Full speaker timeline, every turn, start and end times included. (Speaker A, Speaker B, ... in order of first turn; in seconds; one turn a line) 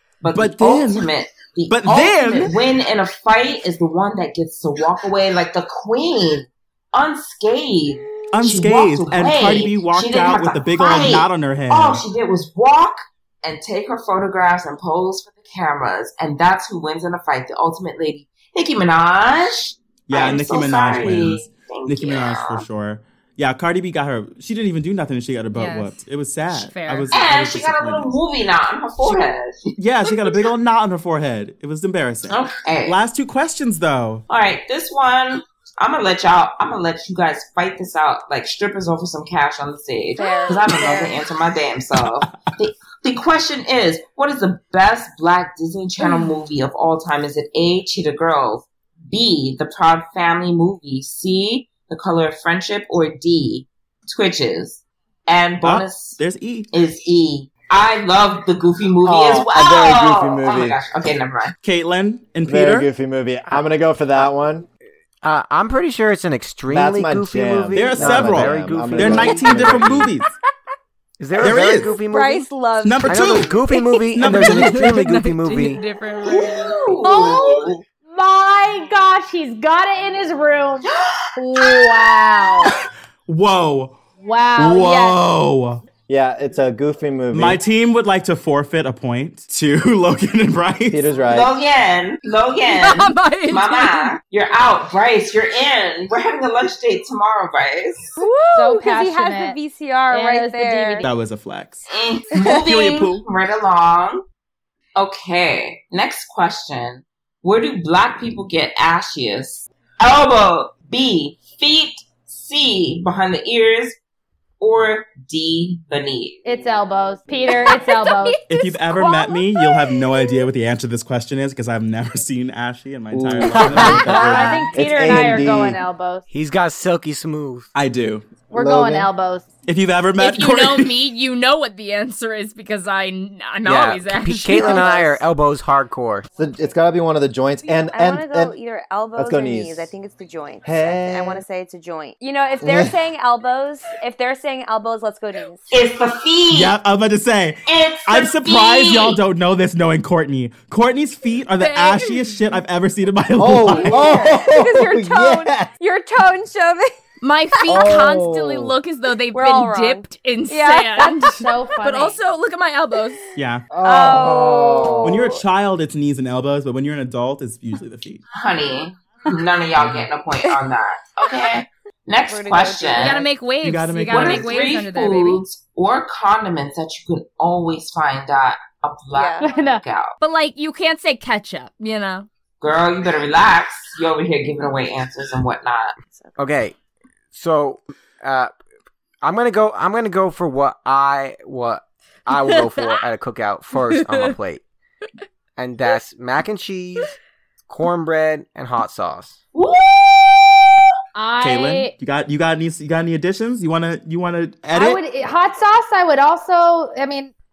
Speaker A: 0.2-22.6
Speaker B: 0.3-1.1
Speaker B: 1.7-2.5
Speaker B: 8.3-12.0
Speaker B: 20.1-28.1
Speaker C: 25.5-25.9
Speaker C: 26.5-27.1
Speaker A: 27.1-30.5
Speaker B: 29.8-34.2
Speaker A: 32.3-33.0
Speaker A: 34.3-56.2
Speaker D: 40.2-41.2
Speaker C: 46.0-46.3
Speaker B: 55.6-56.7
Speaker A: 56.7-61.5
Speaker E: 59.0-60.8
Speaker B: 61.6-62.9
Speaker E: 62.4-64.7
Speaker F: 65.2-70.0
Speaker E: 66.7-70.1
Speaker B: 67.8-70.3
Speaker F: 71.2-72.5
Speaker B: 71.4-72.0
Speaker D: 71.9-74.2
Speaker B: 72.8-73.6
Speaker F: 73.0-75.8
Speaker B: 74.1-75.0
Speaker C: 74.3-76.8
Speaker A: 76.2-77.8
Speaker G: 77.0-82.7
Speaker A: 80.8-82.1
Speaker B: 83.3-84.0
Speaker G: 84.2-85.2
Speaker B: 84.6-85.8
Speaker E: 86.1-87.6
Speaker B: 87.3-91.1
Speaker E: 90.9-91.5
Speaker A: 91.3-98.2
Speaker C: 92.7-94.1
Speaker C: 98.2-98.6
Speaker D: 98.2-101.0
Speaker G: 98.5-99.6
Speaker G: 100.1-101.1
Speaker B: 101.0-103.2
Speaker A: 101.9-104.2
Speaker A: 105.0-114.0
Speaker A: 114.6-116.4
Speaker G: 116.4-118.4
Speaker C: 117.6-120.4
Speaker B: 118.5-124.7
Speaker E: 123.1-125.8
Speaker F: 123.7-124.4
Speaker G: 124.1-126.2
Speaker F: 126.3-127.7
Speaker B: 127.7-128.4
Speaker G: 128.5-129.5
Speaker E: 128.5-129.1
Speaker B: 129.7-130.9
Speaker C: 130.2-134.9
Speaker F: 133.6-136.3
Speaker D: 134.6-135.2
Speaker E: 136.4-138.6
Speaker D: 137.6-145.7
Speaker E: 139.2-139.9
Speaker E: 140.6-141.4
Speaker E: 142.6-142.9
Speaker A: 145.7-146.8
Speaker B: 146.5-154.0
Speaker A: 147.7-149.2
Speaker C: 151.6-152.5
Speaker E: 153.4-155.7
Speaker D: 153.7-156.9
Speaker G: 154.0-154.3
Speaker C: 157.2-163.2
Speaker E: 157.7-158.7
Speaker D: 159.3-161.4
Speaker G: 161.3-162.2
Speaker D: 163.1-165.4
Speaker B: 163.4-163.7
Speaker E: 163.7-165.3
Speaker B: 165.0-168.2
Speaker A: 168.3-173.2
Speaker B: 169.8-170.1
Speaker D: 172.3-173.3
Speaker C: 173.0-175.4
Speaker B: 173.6-174.6
Speaker A: 174.1-180.1
Speaker D: 179.1-179.4
Speaker G: 179.4-179.8
Speaker C: 180.2-182.3
Speaker A: 182.6-185.9
Speaker F: 186.4-186.7
Speaker F: 187.3-188.5
Speaker F: 189.2-194.6
Speaker C: 192.3-193.0
Speaker C: 193.7-194.3
Speaker F: 195.6-197.1
Speaker F: 197.7-199.4
Speaker A: 199.5-200.9
Speaker G: 201.2-201.9
Speaker B: 201.4-205.0
Speaker G: 204.7-207.3